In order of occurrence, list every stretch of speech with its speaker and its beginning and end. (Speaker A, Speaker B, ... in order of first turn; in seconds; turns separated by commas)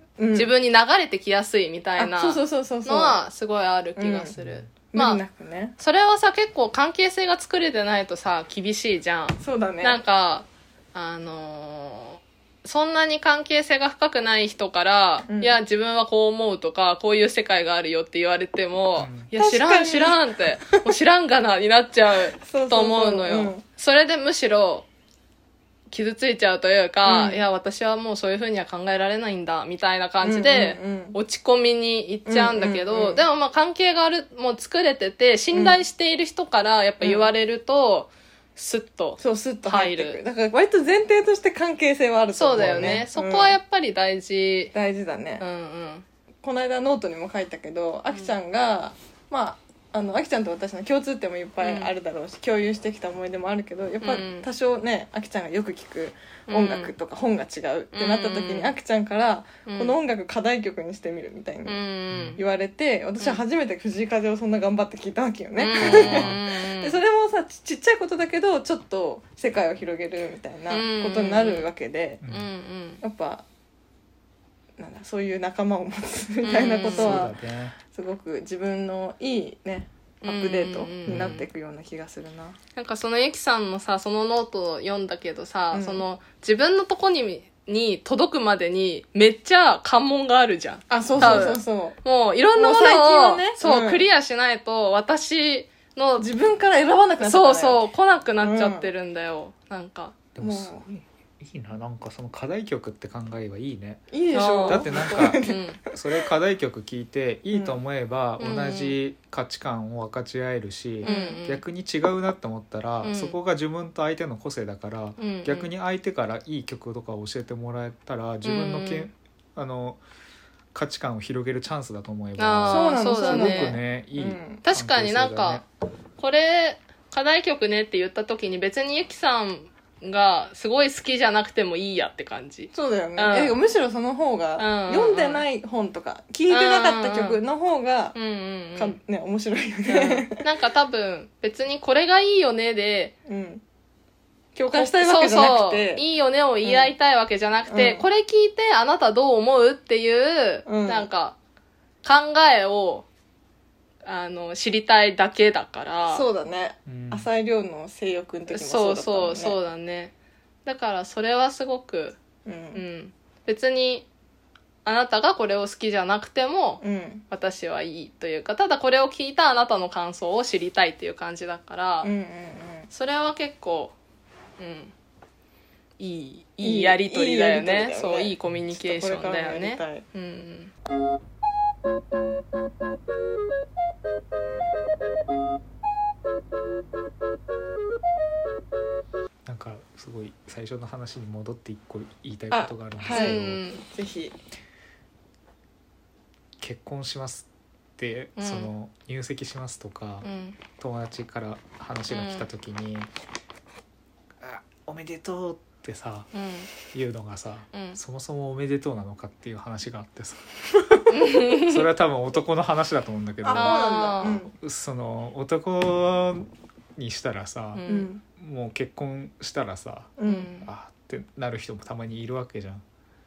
Speaker A: 0.2-0.5, Speaker B: 0.3-5.2, Speaker A: 2.0-3.2, Speaker A: 4.0-4.3, Speaker C: 4.4-4.7, Speaker A: 4.8-5.8, Speaker B: 5.8-24.9, Speaker A: 9.4-10.0, Speaker A: 15.3-15.6, Speaker C: 19.0-19.3, Speaker A: 19.4-20.8, Speaker A: 22.4-23.6, Speaker B: 25.9-40.2, Speaker A: 27.0-27.4, Speaker A: 30.2-31.2, Speaker A: 32.2-33.2, Speaker A: 35.5-35.8, Speaker A: 37.0-37.3, Speaker A: 39.2-43.6, Speaker B: 42.3-44.7, Speaker C: 42.6-43.0, Speaker A: 44.7-45.4, Speaker B: 45.4-46.0, Speaker A: 46.4-61.8, Speaker B: 51.6-51.9, Speaker B: 54.0-54.5, Speaker B: 56.5-56.9, Speaker B: 57.9-58.7, Speaker B: 59.7-60.0, Speaker B: 61.6-62.4, Speaker C: 62.1-62.4, Speaker A: 62.4-72.2, Speaker B: 65.6-67.0, Speaker C: 65.7-66.4, Speaker B: 70.7-71.7, Speaker C: 72.2-72.5, Speaker B: 72.3-73.0, Speaker A: 73.0-73.4, Speaker A: 74.8-77.4, Speaker B: 76.4-77.3, Speaker C: 76.9-77.8, Speaker A: 77.9-82.6, Speaker B: 80.2-81.5, Speaker C: 81.1-81.4, Speaker B: 82.8-96.3, Speaker A: 85.7-86.0, Speaker A: 90.9-92.0, Speaker C: 91.2-91.5, Speaker A: 92.5-94.0, Speaker A: 96.2-97.9, Speaker B: 97.2-100.2, Speaker A: 98.4-98.9, Speaker C: 100.3-104.1, Speaker A: 100.4-100.8, Speaker A: 104.1-106.0, Speaker B: 104.3-105.8, Speaker C: 104.6-120.0, Speaker A: 107.5-107.8, Speaker B: 108.4-108.9, Speaker A: 111.0-111.4, Speaker B: 111.0-111.6, Speaker B: 113.0-113.4, Speaker B: 115.2-115.7, Speaker B: 118.4-119.1, Speaker C: 120.7-125.6, Speaker B: 122.4-123.8, Speaker A: 122.7-124.6, Speaker B: 124.6-125.6, Speaker B: 126.2-133.6, Speaker A: 132.7-138.2, Speaker B: 134.6-135.4, Speaker B: 136.5-137.4, Speaker B: 138.1-139.0, Speaker A: 138.8-140.4, Speaker B: 139.9-143.1, Speaker A: 143.3-143.6, Speaker A: 144.6-146.0, Speaker B: 144.7-151.4, Speaker A: 146.6-146.9, Speaker A: 147.7-148.0, Speaker A: 150.7-151.1, Speaker B: 152.0-153.1, Speaker B: 154.1-156.3, Speaker A: 156.1-159.6, Speaker C: 156.9-157.3, Speaker B: 158.5-160.1, Speaker B: 160.7-162.2, Speaker A: 162.4-162.8, Speaker B: 162.7-164.1, Speaker B: 164.8-172.1, Speaker A: 166.8-167.2, Speaker A: 172.0-172.9, Speaker B: 172.9-173.9, Speaker B: 174.6-174.9, Speaker B: 176.0-180.7, Speaker A: 176.6-180.0, Speaker C: 189.4-193.6, Speaker A: 192.5-194.4, Speaker B: 193.1-193.8, Speaker C: 196.6-203.1, Speaker B: 198.4-198.7, Speaker B: 200.2-200.6, Speaker B: 202.1-202.5, Speaker C: 204.4-206.3, Speaker B: 206.3-206.7, Speaker C: 206.8-222.8, Speaker B: 207.7-208.0, Speaker B: 211.1-211.8, Speaker A: 213.4-214.5, Speaker B: 213.5-214.4, Speaker B: 217.7-218.1, Speaker A: 217.9-218.2, Speaker A: 220.2-220.5, Speaker B: 220.2-220.7